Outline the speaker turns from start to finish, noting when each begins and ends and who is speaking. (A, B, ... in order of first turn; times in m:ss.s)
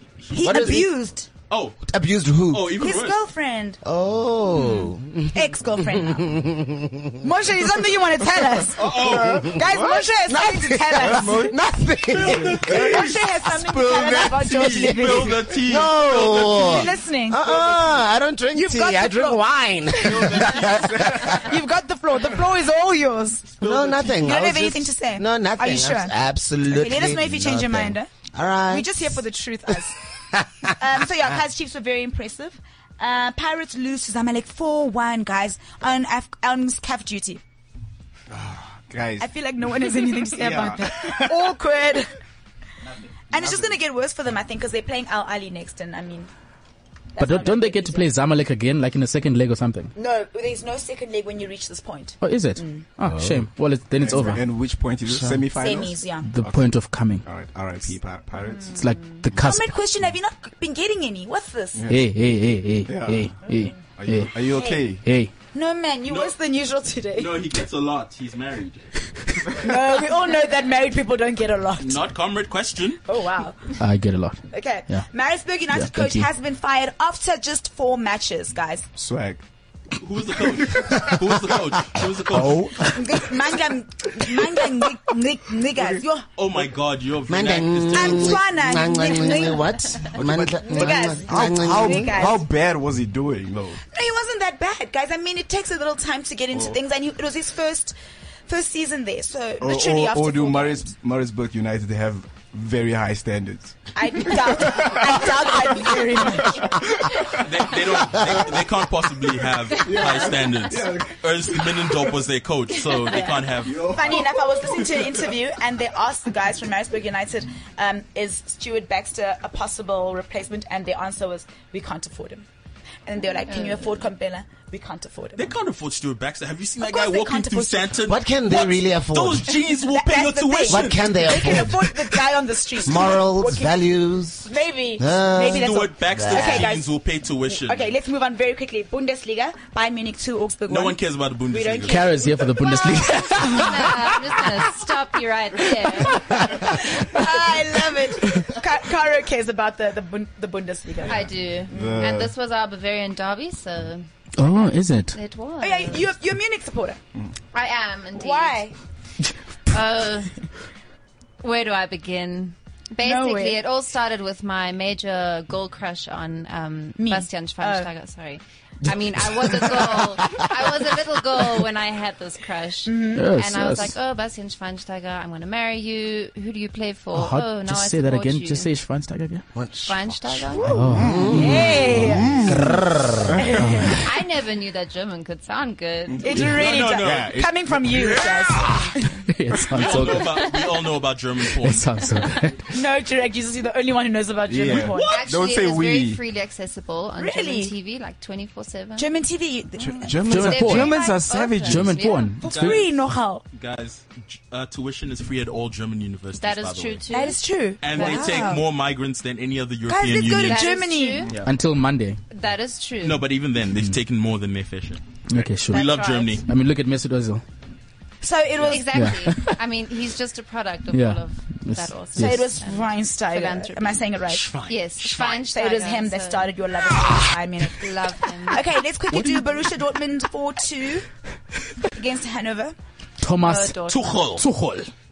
0:00.3-0:00.8 A
0:00.3-0:01.3 B
0:00.3-0:00.9 C
0:01.5-0:01.8 A
0:01.9-0:02.8 C
0:02.5-0:03.2 A
0:02.8-0:03.8 B
0:03.8-0:07.2 C
0:04.5-0:06.4 B
0:07.2-0:11.5 B
0:08.8-0:09.6 A
0:08.8-0:10.1 D
0:09.2-0:09.6 C
0:10.2-0:13.0 C
0:10.9-0:11.6 D
0:12.1-0:13.2 A
0:12.2-0:13.1 D
0:12.6-0:15.5 B
0:13.7-0:14.2 D
0:13.7-0:21.5 C
0:14.1-0:16.9 A
0:16.4-0:17.5 B
0:18.5-0:19.4 B
0:20.0-0:23.6 B
0:20.1-0:21.4 D
0:23.6-0:24.4 A
0:23.6-0:29.2 C
0:24.2-0:26.1 B
0:26.7-0:28.1 B
0:28.7-0:30.0 B
0:30.3-0:30.7 C
0:30.8-0:37.4 B
0:38.3-0:39.3 D
0:39.2-0:42.1 B
0:40.3-0:41.5 D
0:43.3-0:46.3 B
0:43.4-0:43.7 D
0:47.1-0:48.1 B
0:47.2-0:49.9 E
0:50.0-0:52.8 B
0:52.2-0:54.4 E
0:53.1-0:58.8 D
0:55.1-0:55.4 C
0:55.5-0:56.3 B
0:56.2-0:57.2 E
0:58.7-0:59.6 E
0:59.4-1:01.8 B
1:01.8-1:02.1 D
1:01.9-1:04.3 E
1:02.8-1:05.0 D
1:04.5-1:04.8 B
1:05.0-1:05.3 E
1:05.5-1:07.4 B
1:06.1-1:06.3 A
1:07.2-1:08.8 A
1:09.6-1:12.0 B
1:11.8-1:13.0 A
1:13.1-1:13.7 B
1:13.8-1:15.0 E
1:14.5-1:18.9 B
1:15.7-1:16.3 E
1:19.0-1:19.4 D
1:20.0-1:22.8 A
1:20.3-1:23.3 D
1:22.4-1:22.7 E
1:22.9-1:26.3 B
1:26.4-1:28.4 A
1:27.3-1:32.2 C
1:27.9-1:29.7 B
1:30.1-1:33.8 D
1:30.7-1:32.5 B
1:33.9-1:37.9 B
1:38.5-1:40.9 B
1:39.6-1:48.6 D
1:43.9-1:46.7 B
1:47.4-1:53.9 A
1:49.8-1:52.0 D
1:53.1-2:02.4 B
1:53.6-1:55.3 D
2:03.0-2:05.5 B
2:03.5-2:03.8 F
2:05.4-2:11.7 A
2:06.8-2:08.0 B
2:08.0-2:09.5 C
2:09.8-2:13.8 B
2:10.7-2:11.9 C
2:12.8-2:16.7 C
2:14.4-2:16.9 B
2:15.5-2:17.9 A
2:17.5-2:23.9 B
2:20.7-2:22.1 A
2:21.8-2:23.7 E
2:23.4-2:26.6 F
2:26.3-2:31.9 B
2:31.0-2:34.0 F
2:31.7-2:32.3 D
2:34.4-2:35.2 E
2:35.1-2:36.0 F
2:35.6-2:37.0 B
2:37.5-2:38.6 F
2:38.1-2:38.7 B
2:39.7-2:40.3 F
2:41.4-2:58.7 F
2:43.0-2:43.6 B
2:47.0-2:47.9 B
2:52.9-2:53.2 B
2:53.1-2:53.9 E
2:57.1-2:59.4 E
2:59.5-3:03.4 C
2:59.8-3:00.8 F
3:00.7-3:01.5 E
3:00.8-3:02.6 D
3:01.3-3:02.4 B
3:03.4-3:04.0 B
3:03.6-3:03.9 E
3:04.0-3:06.5 F
3:06.1-3:08.8 D
3:06.2-3:09.0 B
3:06.5-3:07.3 A
3:08.7-3:09.2 F
3:09.3-3:10.4 E
3:09.7-3:11.9 A
3:10.2-3:10.7 F
3:11.6-3:12.6 E
3:12.7-3:15.1 B
3:14.5-3:16.2 D
3:14.9-3:15.2 A
3:15.0-3:19.1 F
3:17.2-3:17.7 B
3:19.0-3:20.1 B
3:19.8-3:22.0 D
3:20.0-3:22.4 F
3:20.3-3:21.0 E
3:21.6-3:22.8 E
3:22.3-3:23.4 B
3:22.4-3:22.9 A
3:23.5-3:30.7 A
3:26.4-3:28.6 F
3:27.1-3:28.6 B
3:29.9-3:31.3 B
3:30.3-3:31.3 F
3:31.4-3:32.2 E
3:32.3-3:33.3 F
3:33.0-3:36.4 A
3:35.3-3:35.9 E
3:35.7-3:36.4 F
3:36.4-3:37.4 E
3:38.2-3:39.1 B
3:38.7-3:44.0 F
3:38.9-3:39.6 E
3:40.9-3:42.4 E
3:42.2-3:51.1 B
3:44.6-3:46.5 F
3:47.7-3:48.6 F
3:49.1-3:49.4 E
3:51.9-3:52.7 B
3:53.2-3:54.9 E
3:53.4-3:54.3 F
3:53.9-3:54.4 A